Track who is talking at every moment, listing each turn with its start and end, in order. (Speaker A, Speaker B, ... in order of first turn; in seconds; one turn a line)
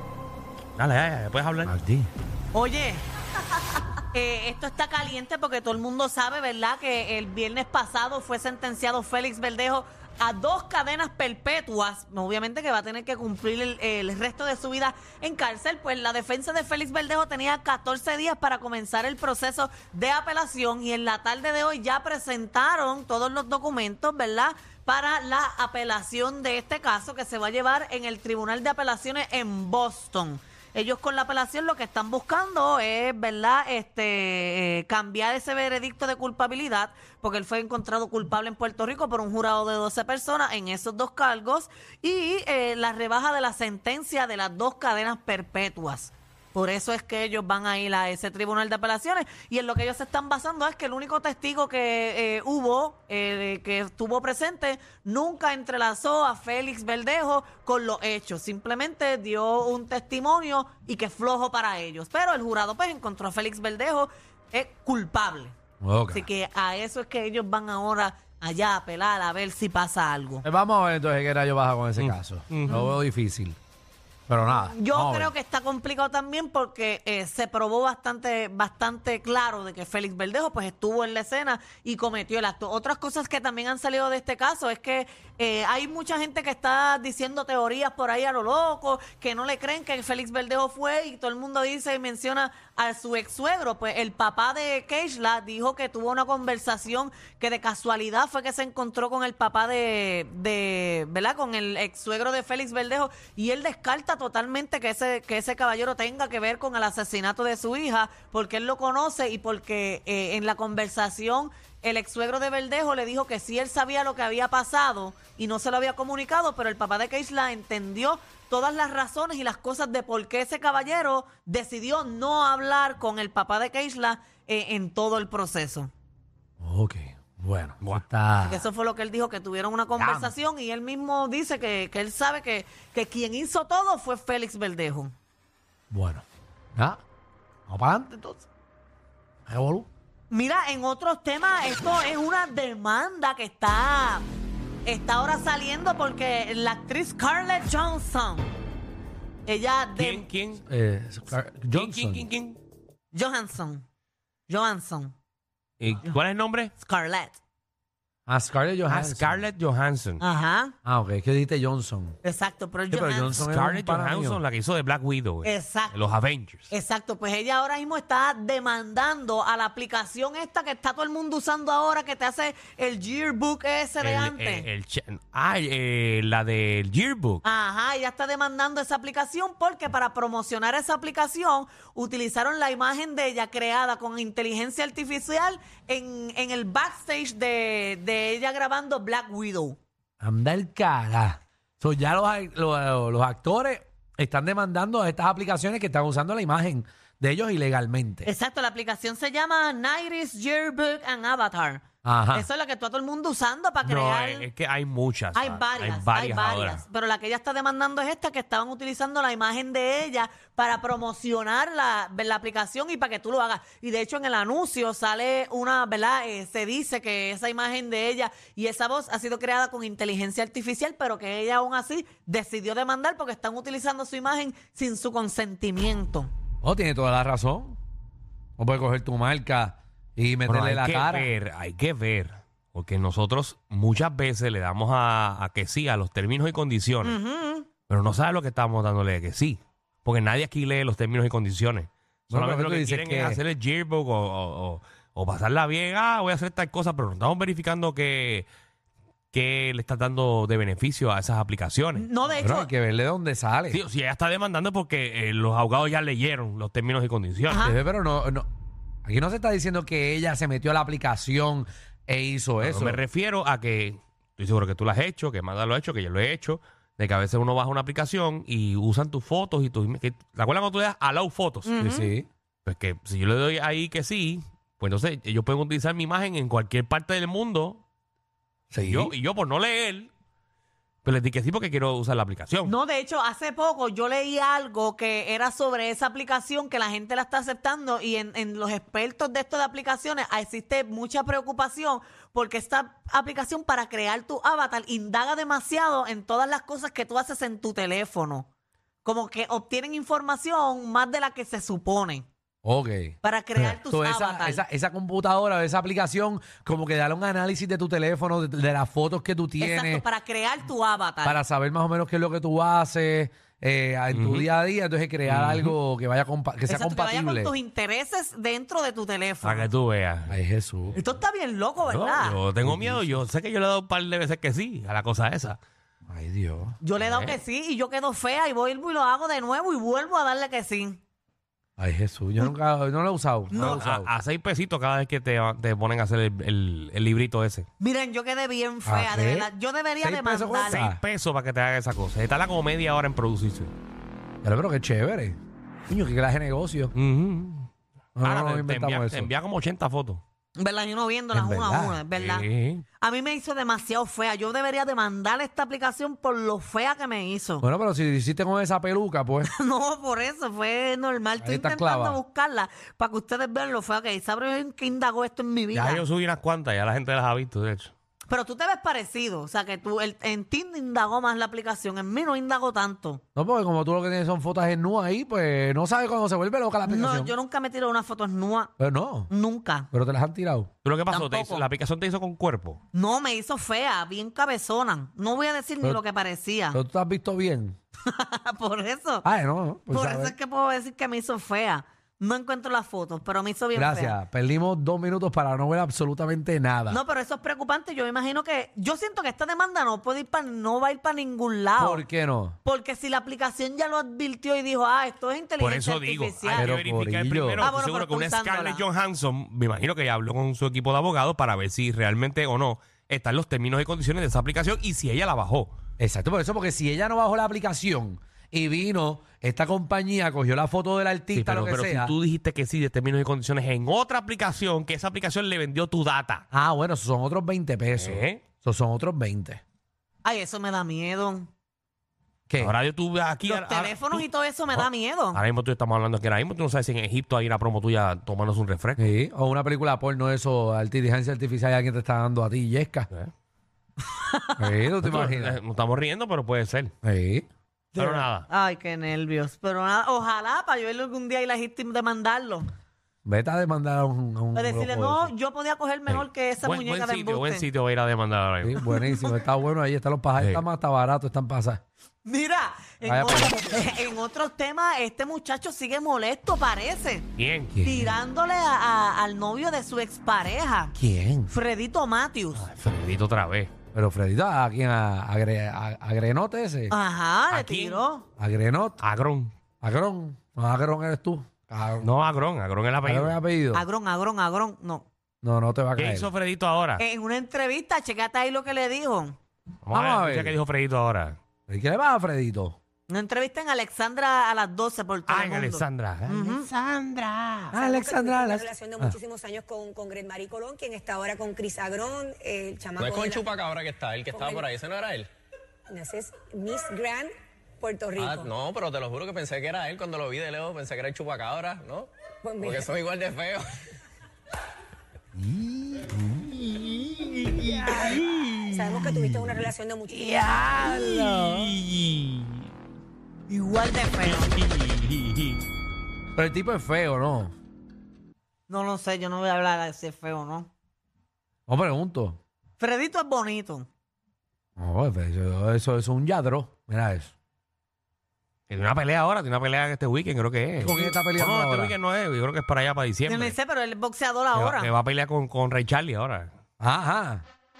Speaker A: 0.8-1.8
Speaker B: 1.6-2.1
Speaker C: 2.5-3.0
Speaker C: 4.1-65.5
Speaker B: 65.8-66.3
Speaker C: 66.1-70.4
Speaker B: 70.4-73.6
Speaker A: 72.0-72.7
Speaker C: 72.7-73.0
Speaker B: 74.3-75.3
Speaker C: 74.5-125.9
Speaker B: 126.6-128.7
Speaker C: 128.4-135.1
Speaker B: 130.0-130.3
Speaker B: 135.9-137.0
Speaker B: 137.7-138.5
Speaker B: 139.5-139.9
Speaker C: 140.3-144.3
Speaker C: 144.8-148.5
Speaker C: 149.5-150.3
Speaker A: 150.0-150.7
Speaker B: 150.7-152.3
Speaker A: 151.7-152.6
Speaker C: 153.1-153.8
Speaker C: 154.5-155.1
Speaker A: 155.8-156.7
Speaker C: 156.8-157.4
Speaker B: 158.3-159.4
Speaker A: 158.9-160.2
Speaker C: 160.2-160.7
Speaker B: 160.8-162.2
Speaker C: 162.2-163.5
Speaker B: 162.9-164.4
Speaker A: 163.3-166.7
Speaker C: 165.4-166.1
Speaker C: 166.7-174.7
Speaker A: 174.0-177.4
Speaker C: 177.4-189.8
Speaker B: 190.2-198.3
Speaker C: 198.2-204.5
Speaker B: 202.0-202.5
Speaker A: 203.8-206.8
Speaker C: 205.3-226.3
Speaker B: 226.6-227.8
Speaker B: 228.6-231.3
Speaker A: 230.5-237.2
Speaker C: 237.0-237.7
Speaker A: 237.9-248.5
Speaker B: 242.3-243.4
Speaker A: 249.3-252.1
Speaker C: 251.9-252.7
Speaker B: 252.4-253.8
Speaker A: 253.7-257.7
Speaker C: 257.5-257.8
Speaker B: 257.6-258.5
Speaker B: 259.1-263.0
Speaker A: 262.6-271.8
Speaker C: 271.7-272.1
Speaker B: 271.8-272.3
Speaker A: 272.6-277.8
Speaker B: 278.7-279.1
Speaker A: 278.8-280.1
Speaker A: 281.0-282.7
Speaker C: 282.6-298.5
Speaker C: 299.0-302.3
Speaker B: 302.6-310.1
Speaker C: 303.2-304.6
Speaker C: 309.6-311.4
Speaker B: 311.2-317.5
Speaker A: 314.1-314.5
Speaker A: 315.3-315.8
Speaker C: 316.7-319.7
Speaker A: 319.4-320.3
Speaker B: 320.3-321.0
Speaker C: 320.9-322.4
Speaker A: 321.8-325.6
Speaker B: 322.6-323.2
Speaker B: 326.1-326.8
Speaker C: 326.8-331.0
Speaker A: 327.0-327.4
Speaker B: 331.8-334.1
Speaker C: 333.5-333.8
Speaker A: 333.5-337.7
Speaker C: 337.8-340.9
Speaker B: 338.9-339.5
Speaker B: 340.0-341.0
Speaker A: 340.7-343.7
Speaker B: 344.4-346.9
Speaker A: 346.9-347.7
Speaker B: 348.2-349.3
Speaker A: 348.2-350.2
Speaker C: 350.6-352.5
Speaker B: 351.3-352.0
Speaker A: 352.1-352.8
Speaker C: 353.0-357.6
Speaker B: 357.6-359.5
Speaker C: 359.4-366.1
Speaker B: 361.4-362.2
Speaker A: 365.7-367.9
Speaker C: 368.3-373.2
Speaker B: 373.4-377.3
Speaker C: 376.9-378.7
Speaker B: 378.8-379.3
Speaker C: 379.3-379.9
Speaker B: 379.9-380.7
Speaker A: 380.8-382.8
Speaker C: 381.1-381.6
Speaker C: 382.9-386.8
Speaker B: 386.7-387.8
Speaker C: 388.1-389.2
Speaker B: 389.2-390.4
Speaker C: 389.9-394.2
Speaker B: 393.7-397.0
Speaker C: 396.9-402.0
Speaker B: 401.8-402.6
Speaker C: 402.6-406.8
Speaker A: 405.6-415.7
Speaker B: 406.5-407.7
Speaker C: 407.6-408.8
Speaker B: 416.0-422.1
Speaker A: 421.3-426.4
Speaker B: 426.5-429.6
Speaker A: 427.9-428.4
Speaker C: 430.2-431.5
Speaker B: 432.5-432.7
Speaker A: 432.6-439.1
Speaker C: 433.4-435.4
Speaker B: 439.0-443.1
Speaker C: 444.0-444.8
Speaker B: 444.6-445.6
Speaker A: 445.1-446.9
Speaker B: 447.0-447.5
Speaker C: 447.9-452.7
Speaker A: 448.0-448.5
Speaker B: 453.3-455.3
Speaker C: 454.6-457.7
Speaker A: 456.1-458.8
Speaker B: 458.6-461.8
Speaker C: 458.8-459.4
Speaker C: 462.2-467.3
Speaker B: 463.0-463.7
Speaker A: 467.4-467.8
Speaker B: 467.7-468.1
Speaker C: 467.8-471.0
Speaker B: 471.0-471.5
Speaker C: 471.5-472.7
Speaker A: 472.6-473.7
Speaker B: 473.9-476.9
Speaker C: 476.9-478.2
Speaker A: 477.5-478.0
Speaker B: 478.4-479.0
Speaker A: 479.0-479.5
Speaker B: 479.8-482.1
Speaker A: 482.0-483.4
Speaker B: 483.0-483.9
Speaker C: 483.7-485.1
Speaker B: 485.4-486.3
Speaker A: 486.0-487.0
Speaker C: 487.0-489.4
Speaker A: 489.9-491.4
Speaker B: 489.9-490.6
Speaker B: 491.7-492.8
Speaker C: 493.1-496.7
Speaker A: 495.3-497.8
Speaker B: 497.7-499.2
Speaker D: 497.7-503.5
Speaker E: 503.0-505.3
Speaker D: 504.3-504.7
Speaker D: 505.9-508.5
Speaker E: 508.2-513.7
Speaker D: 512.4-512.9
Speaker B: 515.4-516.2
Speaker A: 516.3-519.3
Speaker D: 517.9-520.4
Speaker B: 520.2-521.7
Speaker A: 520.6-522.7
Speaker C: 523.5-524.6
Speaker A: 524.2-525.6
Speaker B: 526.4-527.5
Speaker C: 528.7-530.7
Speaker B: 531.7-532.4
Speaker C: 532.8-533.9
Speaker B: 534.8-537.3
Speaker A: 538.7-543.6
Speaker B: 540.8-542.0
Speaker C: 543.3-544.9
Speaker A: 544.5-546.5
Speaker B: 546.8-547.4